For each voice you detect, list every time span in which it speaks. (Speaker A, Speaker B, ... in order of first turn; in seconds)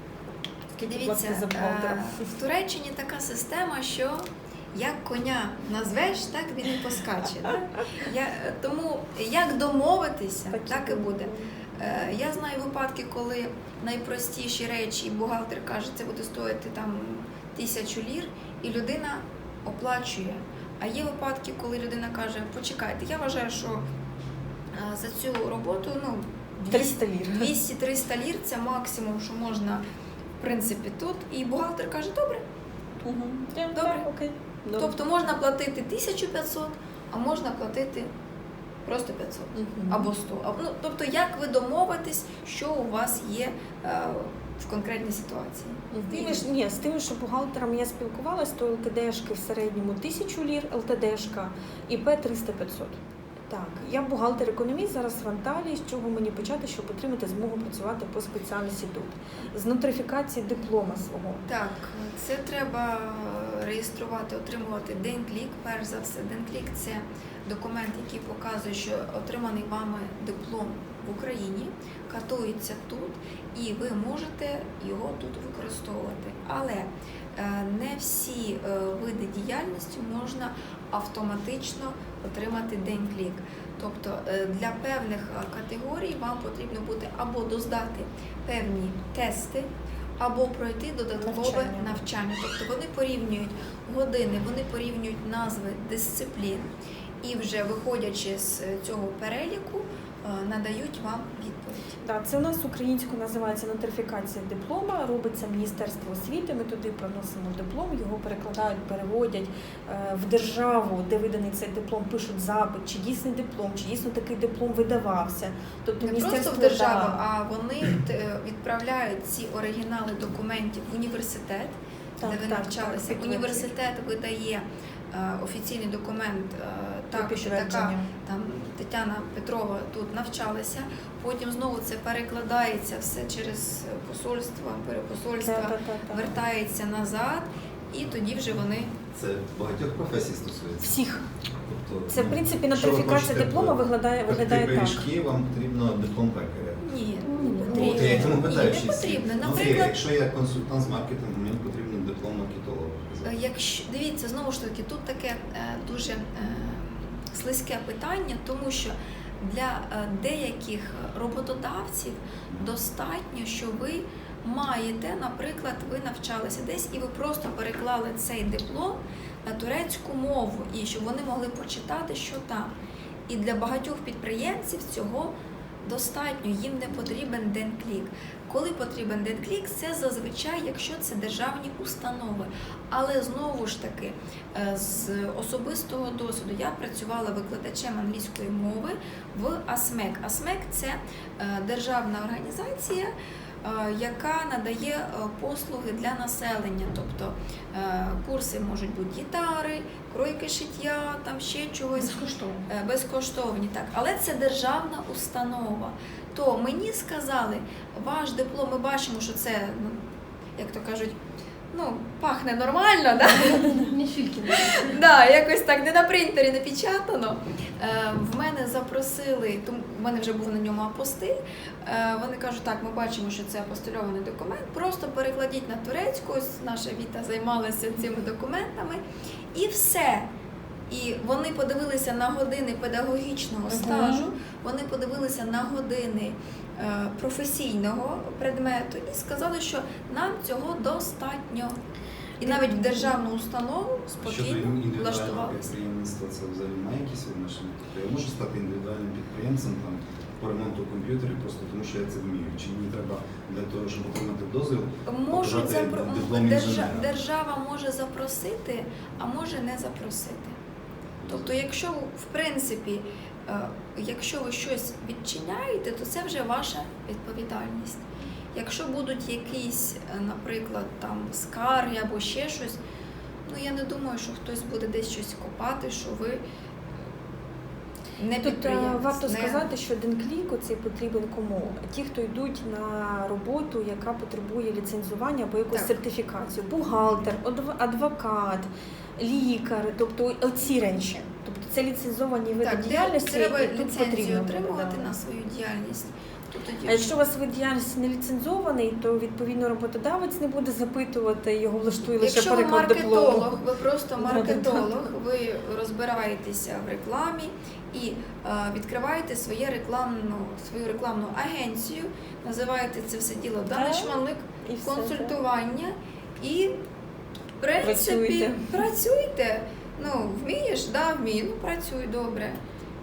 Speaker A: 0.7-2.3, 10.5-11.5, 26.7-27.5, 33.0-35.0, 39.5-40.1, 45.9-61.5, 91.2-91.9, 102.0-117.2, 122.2-123.7, 127.2-128.1, 135.4-136.3, 140.8-141.2, 142.1-145.1, 147.3-148.2, 202.0-202.7, 233.7-234.3, 242.4-243.1, 278.4-295.1, 296.9-303.6, 304.2-305.0, 313.7-315.4, 317.8-318.7
Speaker B: 0.8-23.8, 24.7-29.8, 30.4-32.4, 33.8-34.0, 34.8-38.1, 38.9-46.5, 61.5-89.7, 90.2-96.7, 97.2-102.0, 116.0-139.0, 146.8-150.0, 153.2-172.7, 173.3-193.1, 193.6-210.0, 210.6-211.2, 211.7-229.0, 229.5-230.3, 230.9-241.8, 242.4-245.7, 255.1-260.6, 261.3-272.8, 273.5-276.4, 278.2-279.7, 285.7-286.0, 292.6-297.2, 302.2-316.8, 317.6-322.6
Speaker C: 139.0-141.0, 141.6-146.8, 147.7-153.4, 162.5-162.8, 244.2-257.1, 261.2-261.6